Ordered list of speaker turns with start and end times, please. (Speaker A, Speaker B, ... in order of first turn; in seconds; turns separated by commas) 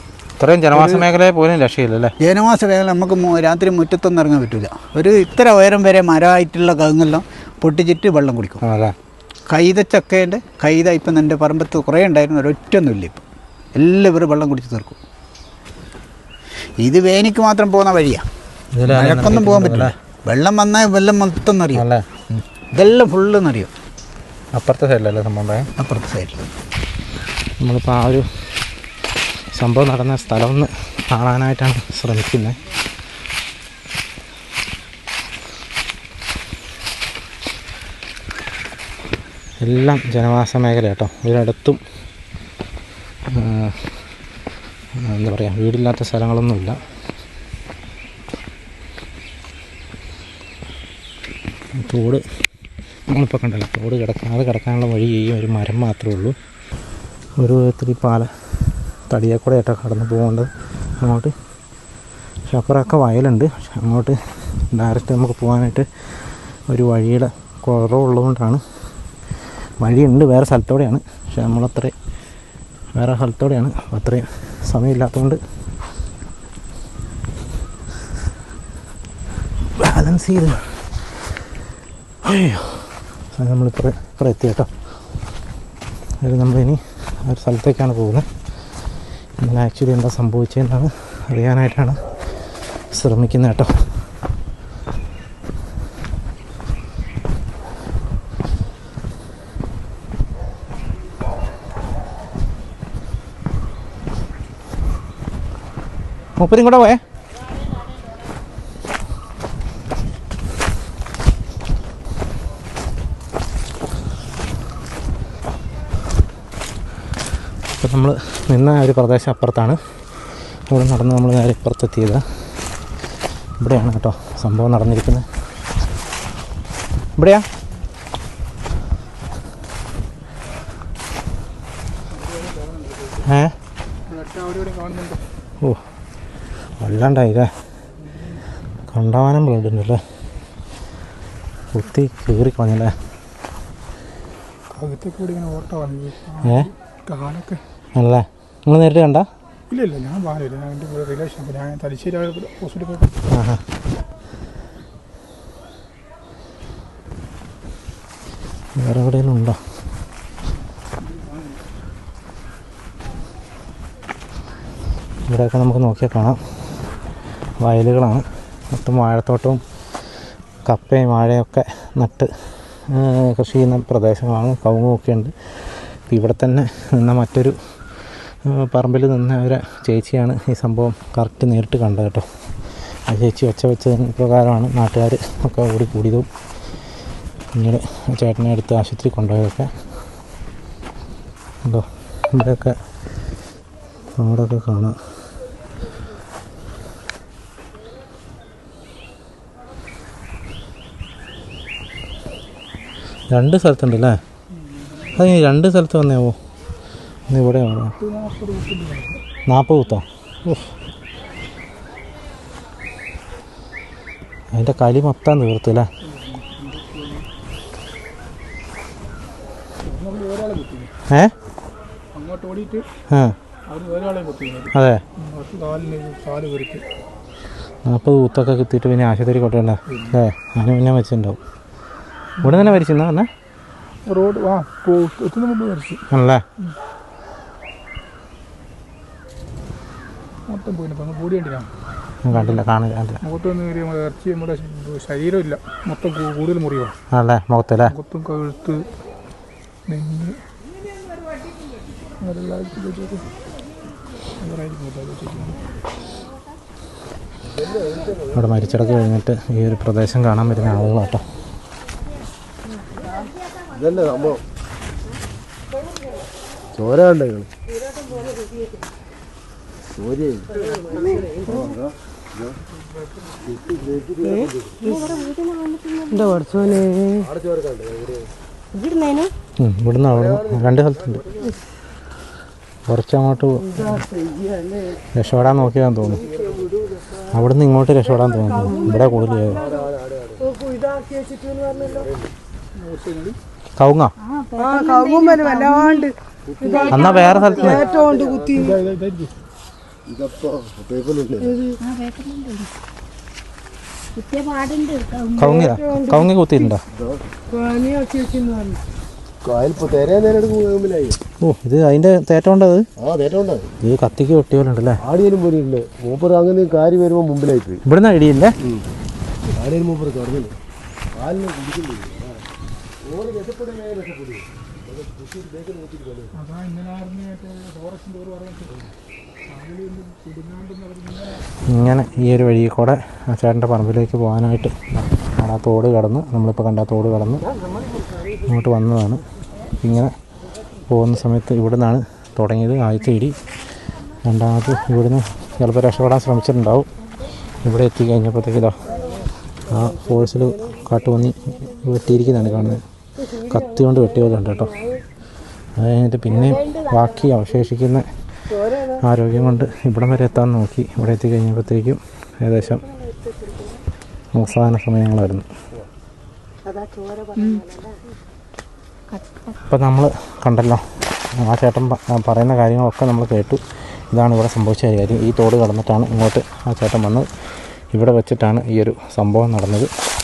Speaker A: 0.4-2.1, Speaker B: 0.7-1.1, Speaker B: 2.2-8.6, Speaker A: 8.6-8.9, Speaker B: 9.5-13.2, Speaker B: 13.8-15.0, Speaker B: 16.8-18.3, Speaker A: 18.7-19.9, Speaker B: 18.9-21.9, Speaker A: 21.7-22.4, Speaker B: 22.7-23.7, Speaker A: 24.5-25.7, Speaker B: 25.8-26.4, Speaker A: 27.6-28.6, Speaker A: 29.5-32.6, Speaker A: 39.6-41.8, Speaker A: 43.3-44.0, Speaker A: 45.0-46.8, Speaker A: 51.8-52.3, Speaker A: 53.1-56.4, Speaker A: 57.4-58.3, Speaker A: 59.1-61.3, Speaker A: 62.5-65.9, Speaker A: 66.7-68.6, Speaker A: 69.8-71.9, Speaker A: 73.0-75.4, Speaker A: 79.8-81.3, Speaker A: 82.2-84.7, Speaker A: 86.2-88.3, Speaker A: 89.4-92.0, Speaker A: 92.7-94.0, Speaker A: 106.4-107.0, Speaker A: 117.7-122.7, Speaker A: 123.6-125.3, Speaker A: 127.2-127.5, Speaker C: 132.1-133.3, Speaker A: 133.2-133.6, Speaker C: 134.1-135.2, Speaker A: 136.8-137.5, Speaker A: 138.9-140.1, Speaker A: 141.7-143.0, Speaker C: 144.7-147.6, Speaker A: 146.4-146.7, Speaker A: 147.9-149.3, Speaker C: 149.7-153.2, Speaker A: 153.3-153.6, Speaker A: 158.8-159.6, Speaker C: 161.0-161.6, Speaker A: 165.3-166.6, Speaker A: 167.6-169.6, Speaker A: 170.7-177.6, Speaker A: 178.4-182.3, Speaker A: 183.1-186.3, Speaker A: 187.5-189.8, Speaker A: 191.6-192.8, Speaker A: 194.2-195.0, Speaker A: 203.3-204.2, Speaker C: 204.8-205.2, Speaker A: 205.2-206.4, Speaker A: 207.3-207.9, Speaker C: 208.0-209.2, Speaker A: 209.5-210.7, Speaker A: 214.5-215.9, Speaker C: 216.0-217.3, Speaker C: 219.8-220.9, Speaker A: 221.1-221.3, Speaker C: 222.1-222.8, Speaker A: 223.1-223.4, Speaker C: 223.7-226.8, Speaker A: 224.7-225.0, Speaker A: 227.8-231.4, Speaker C: 229.9-230.2, Speaker C: 232.4-232.8, Speaker A: 232.4-233.3, Speaker C: 234.1-236.0, Speaker A: 236.1-236.4, Speaker C: 240.5-241.7, Speaker A: 242.3-243.2, Speaker C: 242.3-242.6, Speaker C: 243.2-246.9, Speaker A: 247.1-247.9, Speaker C: 247.9-248.9, Speaker C: 249.9-250.4, Speaker C: 252.2-253.2, Speaker C: 254.4-255.6, Speaker D: 257.6-258.1, Speaker A: 258.3-261.2, Speaker D: 263.7-264.4, Speaker D: 266.7-267.5, Speaker D: 270.0-271.9, Speaker E: 271.5-271.7, Speaker D: 273.5-274.8, Speaker E: 274.2-277.3, Speaker D: 277.3-278.2, Speaker E: 278.7-279.3, Speaker A: 279.6-281.2, Speaker A: 282.9-284.0, Speaker A: 285.1-286.2, Speaker D: 286.2-286.7, Speaker A: 287.3-289.6, Speaker E: 288.6-289.1, Speaker D: 289.6-290.4, Speaker D: 291.8-292.2, Speaker C: 292.8-293.4, Speaker A: 293.8-294.1, Speaker E: 294.4-298.8, Speaker D: 296.6-298.9, Speaker A: 296.9-297.9, Speaker C: 299.0-299.3, Speaker D: 300.1-301.6, Speaker E: 301.4-302.7, Speaker E: 304.2-306.2, Speaker A: 305.4-306.8, Speaker E: 307.6-308.7, Speaker D: 309.4-311.2, Speaker A: 311.4-312.9, Speaker D: 313.0-313.7, Speaker A: 313.8-315.0, Speaker D: 315.0-317.8, Speaker A: 317.9-318.6, Speaker D: 319.6-320.5, Speaker D: 321.1-322.4, Speaker D: 323.1-326.3, Speaker C: 326.3-328.9, Speaker C: 329.5-331.5, Speaker A: 331.6-337.4, Speaker A: 338.4-339.2, Speaker A: 339.8-340.1, Speaker A: 340.9-343.4, Speaker A: 344.2-346.9, Speaker A: 347.6-348.8, Speaker A: 349.7-352.8, Speaker A: 353.4-354.8, Speaker A: 355.8-358.1, Speaker A: 359.0-362.8, Speaker A: 364.3-365.5, Speaker E: 367.4-367.6, Speaker A: 369.6-377.3, Speaker A: 377.9-379.9